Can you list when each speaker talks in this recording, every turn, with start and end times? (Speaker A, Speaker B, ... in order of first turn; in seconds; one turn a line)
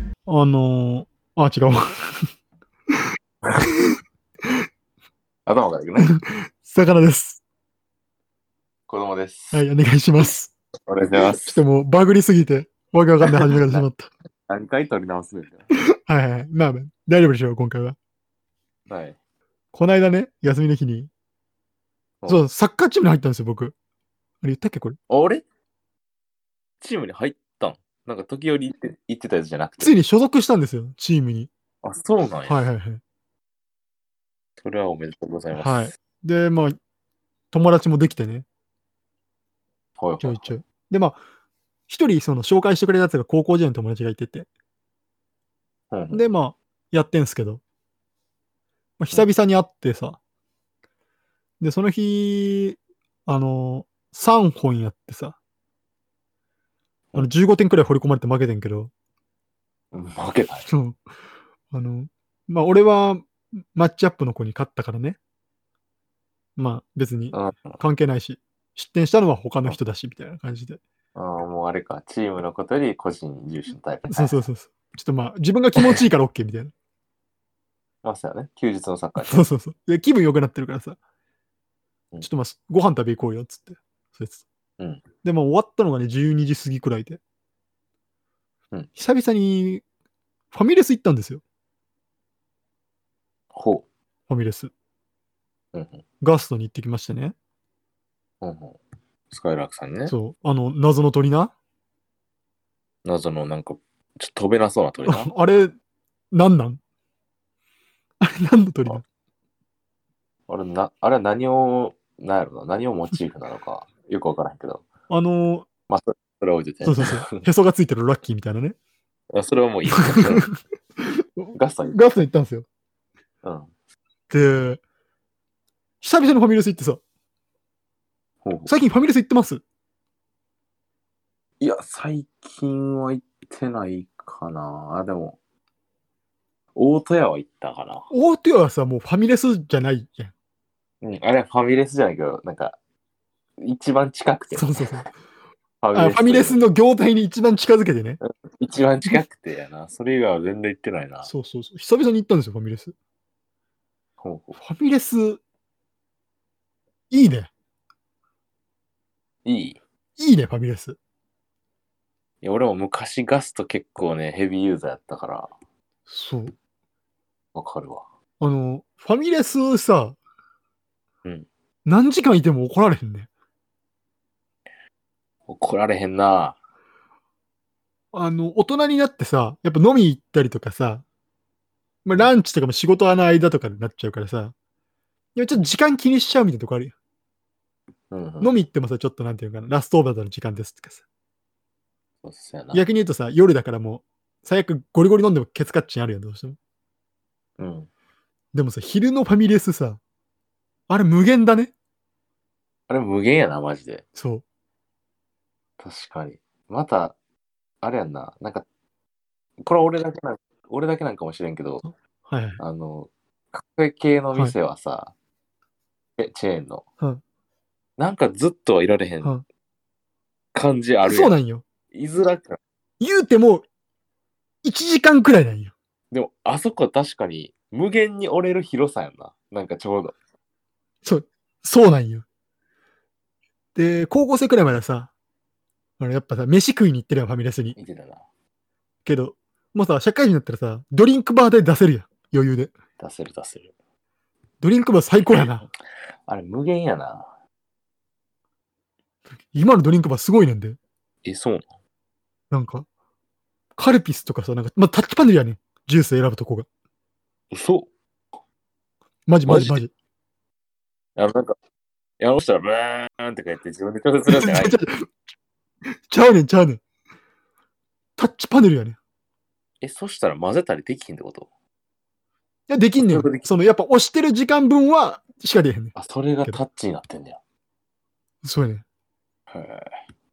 Speaker A: 0.2-2.3
Speaker A: 3.6-4.0
Speaker B: 5.5-6.2
Speaker A: 6.0-7.4
Speaker B: 8.9-9.6
Speaker A: 9.5-10.5
Speaker B: 10.9-11.6
Speaker A: 11.4-14.1
Speaker B: 13.4-13.8
Speaker B: 14.5-15.7
Speaker A: 15.8-17.9
Speaker B: 18.9-19.1
Speaker A: 19.7-21.1
Speaker A: 22.3-23.7
Speaker A: 24.4-25.0
Speaker B: 25.1-25.4
Speaker B: 26.8-29.9
Speaker A: 29.8-31.5
Speaker B: 31.8-32.6
Speaker A: 32.5-33.0
Speaker B: 34.6-35.9
Speaker A: 35.5-36.8
Speaker A: 37.5-38.5
Speaker B: 40.0-40.5
Speaker A: 40.2-41.2
Speaker A: 41.9-44.5
Speaker B: 45.9-46.2
Speaker A: 46.1-47.6
Speaker A: 49.0-50.2
Speaker A: 51.6-55.4
Speaker A: 57.1-58.9
Speaker B: 59.9-60.7
Speaker A: 60.7-61.0
Speaker A: 61.7-65.2
Speaker A: 66.6-70.8
Speaker B: 67.3-67.8
Speaker B: 71.1-74.4
Speaker A: 74.1-76.7
Speaker B: 78.0-79.4
Speaker A: 79.2-81.0
Speaker A: 82.2-84.4
Speaker B: 84.8-85.0
Speaker A: 85.2-87.2
Speaker A: 89.0-89.8
Speaker A: 90.5-91.4
Speaker B: 93.5-93.8
Speaker A: 94.3-94.7
Speaker B: 95.7-96.0
Speaker A: 96.2-97.3
Speaker B: 98.4-98.8
Speaker B: 99.3-100.1
Speaker A: 100.1-101.5
Speaker B: 103.0-105.3
Speaker A: 105.0-105.7
Speaker A: 106.3-106.8
Speaker A: 108.2-109.0
Speaker B: 110.5-114.8
Speaker A: 115.1-115.7
Speaker B: 115.9-117.5
Speaker A: 116.8-118.8
Speaker B: 119.3-120.5
Speaker A: 119.9-122.7
Speaker B: 121.5-122.0
Speaker B: 123.4-123.7
Speaker A: 124.3-124.8
Speaker A: 126.0-127.0
Speaker B: 128.4-128.7
Speaker A: 128.7-129.6
Speaker B: 131.6-135.4
Speaker B: 136.7-138.1
Speaker A: 138.1-140.3
Speaker B: 141.0-142.8
Speaker B: 143.6-145.0
Speaker A: 144.5-145.1
Speaker B: 145.8-146.7
Speaker A: 145.9-148.2
Speaker B: 148.2-151.3
Speaker A: 151.2-152.9
Speaker B: 154.2-154.6
Speaker A: 154.6-155.4
Speaker A: 157.1-157.5
Speaker B: 159.4-159.8
Speaker A: 160.2-161.0
Speaker B: 162.4-165.5
Speaker A: 166.1-166.5
Speaker B: 167.5-168.0
Speaker A: 168.4-170.2
Speaker A: 171.8-173.3
Speaker B: 175.5-176.6
Speaker A: 178.1-181.0
Speaker A: 182.0-184.5
Speaker A: 185.3-186.9
Speaker B: 188.1-188.5
Speaker A: 188.4-191.0
Speaker B: 192.2-192.9
Speaker A: 192.7-196.6
Speaker B: 197.6-197.9
Speaker A: 198.5-200.0
Speaker A: 200.9-201.7
Speaker B: 202.9-204.0
Speaker A: 204.2-204.4
Speaker B: 205.8-207.2
Speaker B: 207.8-208.6
Speaker B: 209.6-211.8
Speaker A: 212.3-212.6
Speaker B: 212.6-215.1
Speaker B: 216.2-216.8
Speaker B: 218.0-219.3
Speaker B: 220.5-221.3
Speaker A: 221.0-221.6
Speaker B: 221.9-222.6
Speaker A: 223.0-223.6
Speaker A: 224.6-225.7
Speaker B: 226.1-230.1
Speaker A: 231.0-232.2
Speaker A: 233.7-235.1
Speaker A: 236.0-237.8
Speaker B: 237.8-238.2
Speaker A: 239.0-242.7
Speaker B: 243.0-243.7
Speaker A: 244.6-245.6
Speaker B: 245.3-245.5
Speaker B: 246.3-247.3
Speaker A: 249.5-250.8
Speaker B: 251.2-251.7
Speaker A: 252.5-252.9
Speaker A: 253.8-256.6
Speaker B: 257.5-257.9
Speaker A: 259.3-259.9
Speaker B: 259.5-259.8
Speaker B: 261.2-261.5
Speaker B: 262.2-264.8
Speaker A: 264.3-265.1
Speaker A: 266.1-266.8
Speaker A: 268.2-269.0
Speaker B: 269.8-271.5
Speaker A: 272.7-275.9
Speaker B: 273.0-273.5
Speaker B: 275.9-277.4
Speaker A: 278.4-278.8
Speaker B: 279.5-279.9